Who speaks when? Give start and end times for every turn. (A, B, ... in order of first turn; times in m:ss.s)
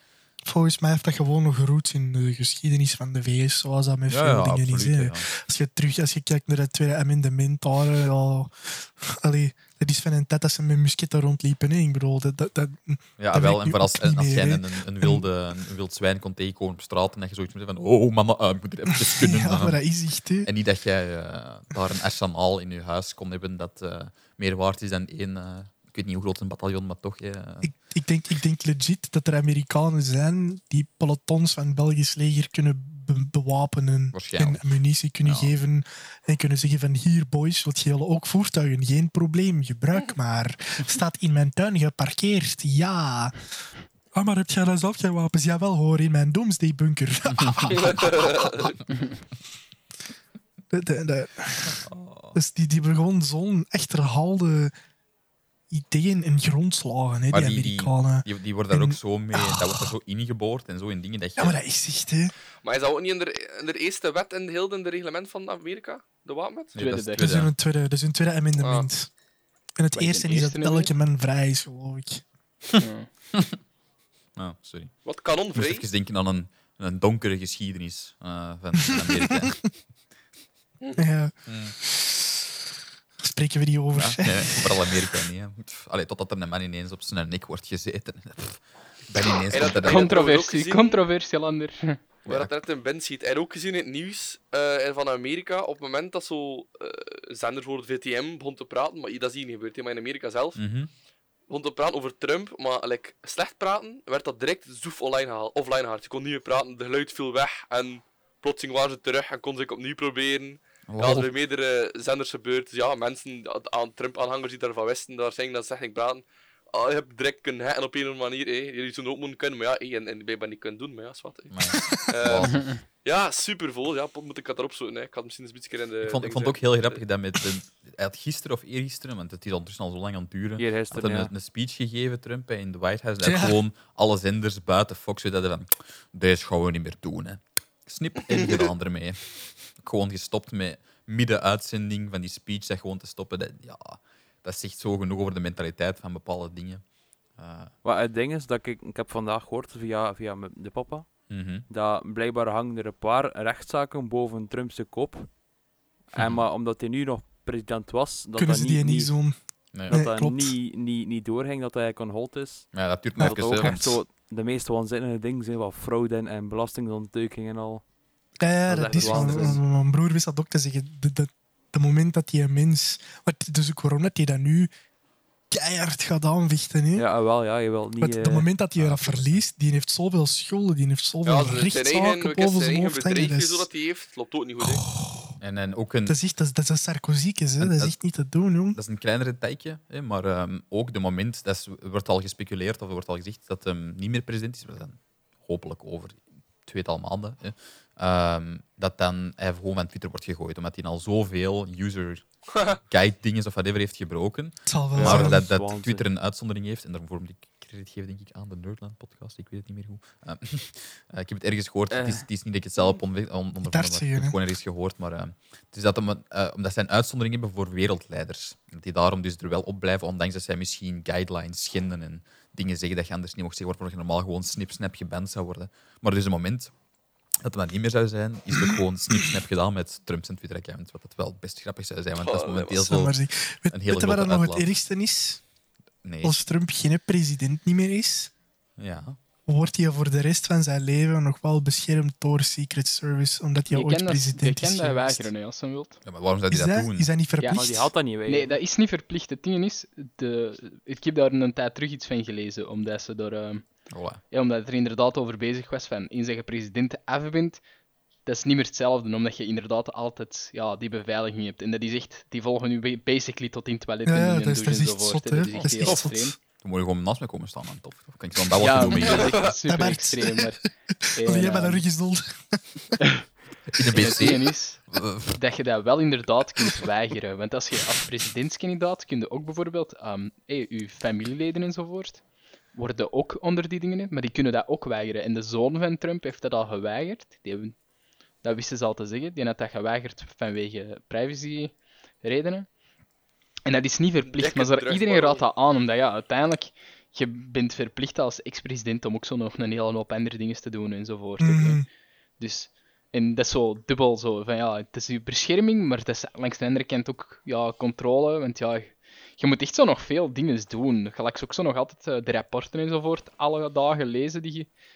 0:00.4-0:15.2 A
0:04.1-0:05.3 B
0:13.2-0:19.8 B
0:18.9-0:20.5 A
0:20.4-0:27.7 B
0:27.6-0:43.4 A
0:34.1-0:35.5 B
0:44.1-0:48.7 A
0:47.4-0:47.7 B
0:47.7-0:48.8 C
0:50.7-0:51.8 A
0:51.8-0:52.4 B
0:52.3-0:54.7 A
0:55.7-0:59.9 A
0:57.3-1:01.6 B
1:01.4-1:02.3 A
1:02.6-1:06.8 C
1:06.8-1:07.5 B
1:06.8-1:07.3 D
1:07.2-1:09.1 A
1:08.6-1:08.9 C
1:09.8-1:12.2 A
1:10.0-1:10.9 D
1:12.8-1:13.1 D
1:14.4-1:14.9 B
1:15.0-1:15.9 C
1:15.5-1:19.6 B
1:18.9-1:19.5 A
1:21.0-1:22.5 A
1:21.5-1:21.8 B
1:23.2-1:25.2 A
1:24.0-1:30.2 B
1:29.5-1:31.0 C
1:29.7-1:32.0 D
1:32.2-1:40.6 C
1:32.3-1:32.5 B
1:40.6-1:40.9 B
1:41.5-2:07.0 C
1:50.9-1:51.3 B
2:01.5-2:02.7 B
2:02.5-2:02.8 D
2:06.0-2:26.8 B
2:10.6-2:11.3 E
2:13.2-2:13.6 A
2:27.4-2:27.7 B
2:27.8-2:31.2 E
2:31.3-2:31.7 B
2:31.7-2:35.3 E
2:36.1-2:39.1 E
2:36.2-2:36.4 B
2:38.4-2:39.4 A
2:39.7-2:40.0 B
2:39.9-2:40.6 A
2:39.9-2:47.8 E
2:42.7-2:44.0 B
2:43.2-2:43.8 A
2:48.4-2:54.7 A
2:48.7-2:49.6 E
2:49.2-2:49.6 D
2:55.5-2:57.1 A
2:57.0-2:58.5 E
2:58.0-3:03.7 A
2:58.8-2:59.4 B
3:01.2-3:04.8 C
3:04.6-3:05.3 A
3:05.4-3:06.2 B
3:06.1-3:08.8 A
3:07.6-3:08.0 B
3:08.7-3:22.2 B
3:22.8-3:46.7 B
3:24.7-3:25.5 A
3:25.0-3:26.0 E
3:31.9-3:32.2 E
3:33.6-3:34.4 A
3:47.4-3:53.1 B
3:48.5-3:49.3 A
3:52.2-3:52.8 C
3:52.8-3:55.4 A
3:53.7-3:54.7 B
3:56.0-3:56.4 B
3:56.2-3:58.3 A
3:58.8-3:59.2 B
3:59.5-4:05.3 A
4:03.7-4:06.0 D
4:06.0-4:07.1 B
4:06.5-4:07.9 A
4:07.5-4:08.6 E
4:08.3-4:13.7 D
4:13.9-4:14.2 B
4:14.3-4:17.6 D
4:18.2-4:26.4 D
4:24.0-4:26.4 A
4:26.6-4:29.5 B
4:28.6-4:31.8 D
4:29.0-4:29.4 C
4:29.6-4:32.8 A
4:33.7-4:35.4 B
4:33.9-4:42.2 D
4:42.7-4:47.8 D
4:48.4-4:52.7 D
4:53.6-5:01.8 D
4:54.2-4:55.4 C
5:01.4-5:01.9 A
5:02.4-5:14.7 D